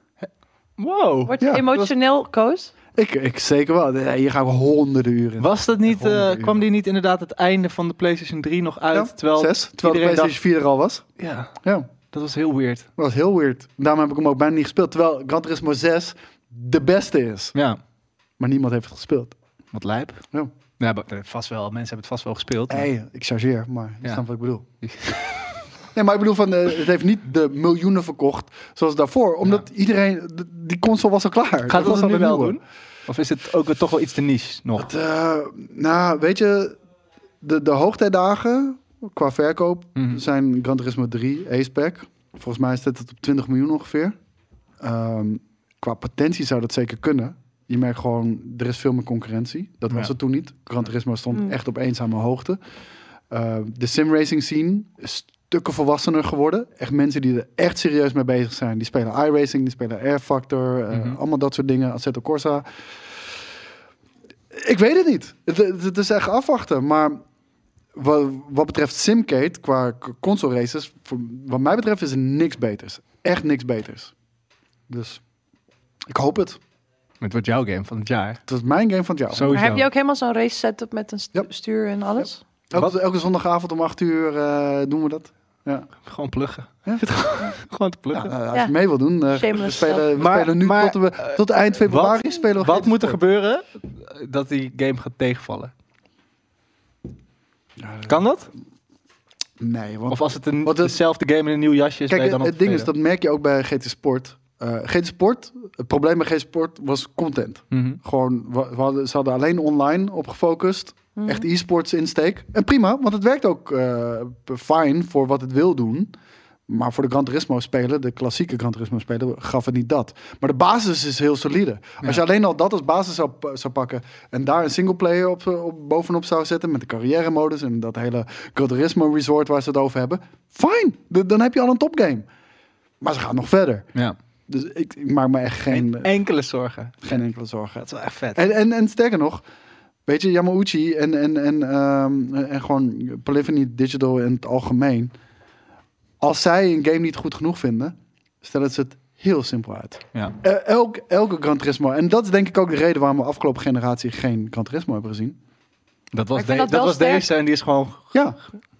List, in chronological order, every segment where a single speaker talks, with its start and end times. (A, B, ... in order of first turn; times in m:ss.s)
0:00.2-0:01.9 A
0:01.3-0:02.7 B
0:01.4-0:01.7 C
0:03.0-0:06.6 C
0:05.4-0:10.4 A
0:08.9-0:11.0 C
0:11.2-0:11.5 A
0:11.6-0:11.9 C
0:12.1-0:12.9 A
0:13.0-0:17.6 C
0:18.4-0:19.4 C
0:19.7-0:20.2 A
0:20.8-0:22.9 A
0:22.7-0:24.6 C
0:24.8-0:25.6 A
0:25.9-0:32.6 C
0:31.7-0:34.9 A
0:34.8-0:36.7 C
0:37.4-0:44.2 C
0:40.0-0:40.2 A
0:44.8-0:52.6 C
0:53.3-1:02.6 C
1:00.9-1:01.2 A
1:04.5-1:07.2 C
1:07.9-1:14.1 C
1:14.9-1:15.2 C
1:16.1-1:16.6 C
1:17.2-1:18.4 A
1:18.5-1:19.6 C
1:19.3-1:19.9 A
1:19.5-1:22.4 B
1:22.2-1:25.9 C
1:26.0-1:28.3 A
1:28.1-1:33.2 C
1:29.3-1:30.1 B
1:30.1-1:35.7 A
1:37.8-1:38.2 C
1:38.0-1:38.5 A
1:39.6-1:41.0 C
1:40.1-1:42.9 A
1:42.1-1:56.1 C
1:47.7-1:48.0 A
1:51.2-1:51.4 B
1:56.7-2:12.3 C
2:13.0-2:13.9 C
2:14.5-2:16.1 C
2:15.7-2:17.2 A
2:17.0-2:19.4 C
2:17.9-2:18.4 A
2:20.0-2:25.1 C
2:26.2-2:35.4 C
2:36.1-2:38.1 A
2:36.4-2:37.3 B